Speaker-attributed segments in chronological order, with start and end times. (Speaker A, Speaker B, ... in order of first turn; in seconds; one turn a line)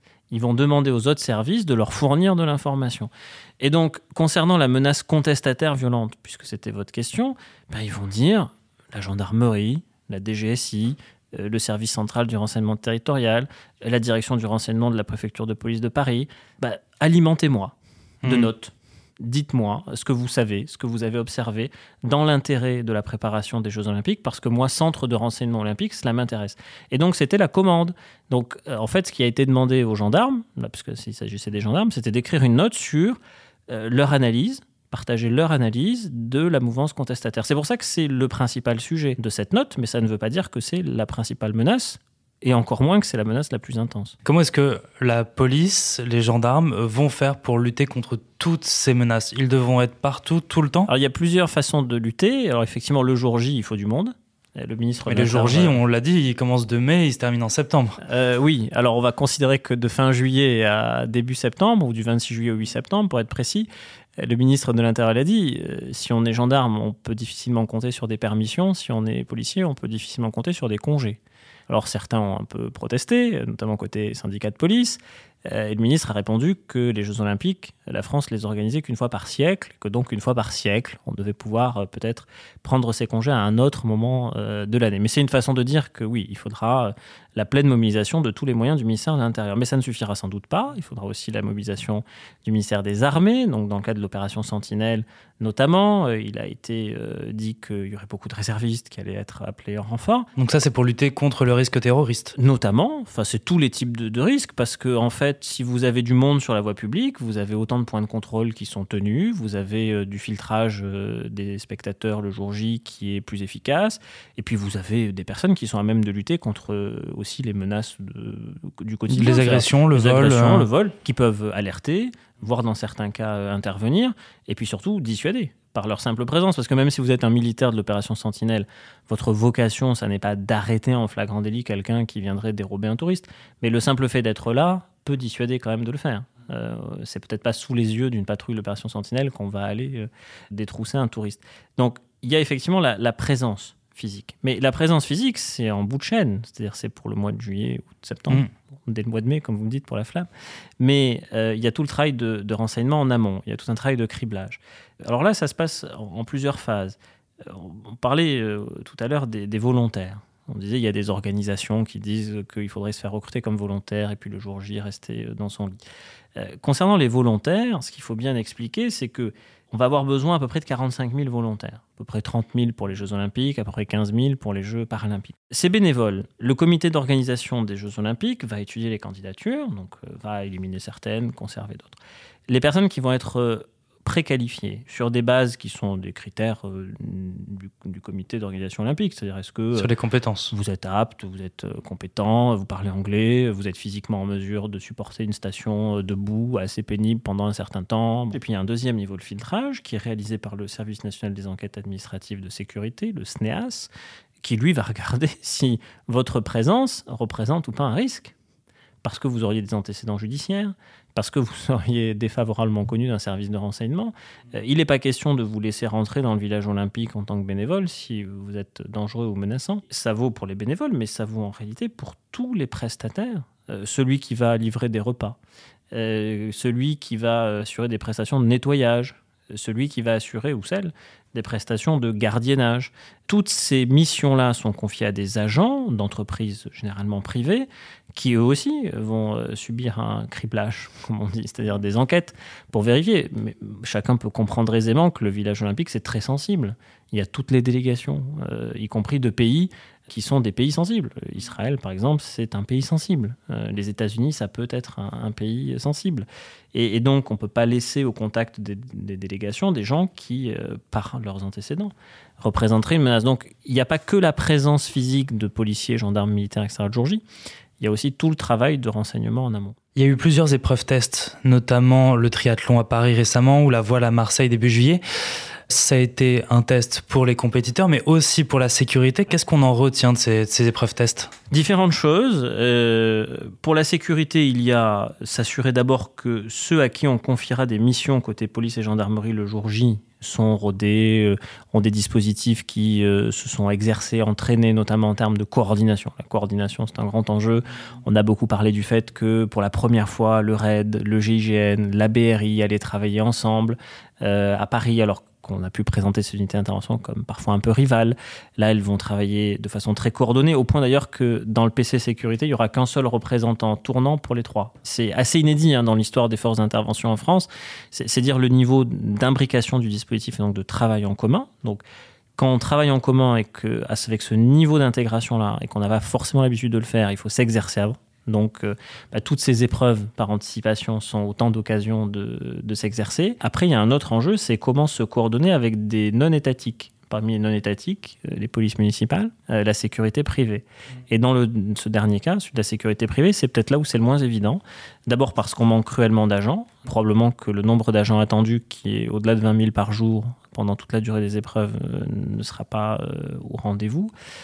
Speaker A: 0.3-33.2
Speaker B: 18.2-18.5
Speaker A: 33.7-44.1
Speaker B: 44.2-50.9
Speaker A: 50.9-55.8
Speaker B: 55.1-58.0
Speaker A: 58.0-100.3
Speaker B: 100.4-102.4
Speaker A: 102.4-150.3
Speaker B: 119.1-120.7
Speaker A: 150.8-165.8
Speaker A: 166.4-182.0
Speaker A: 182.5-189.9
Speaker B: 189.8-190.5
Speaker A: 190.5-208.3
Speaker A: 209.0-225.4
Speaker A: 225.9-267.2
Speaker A: 267.8-269.8
Speaker B: 270.0-275.0
Speaker B: 275.7-281.3
Speaker A: 281.5-321.8
Speaker A: 322.4-354.1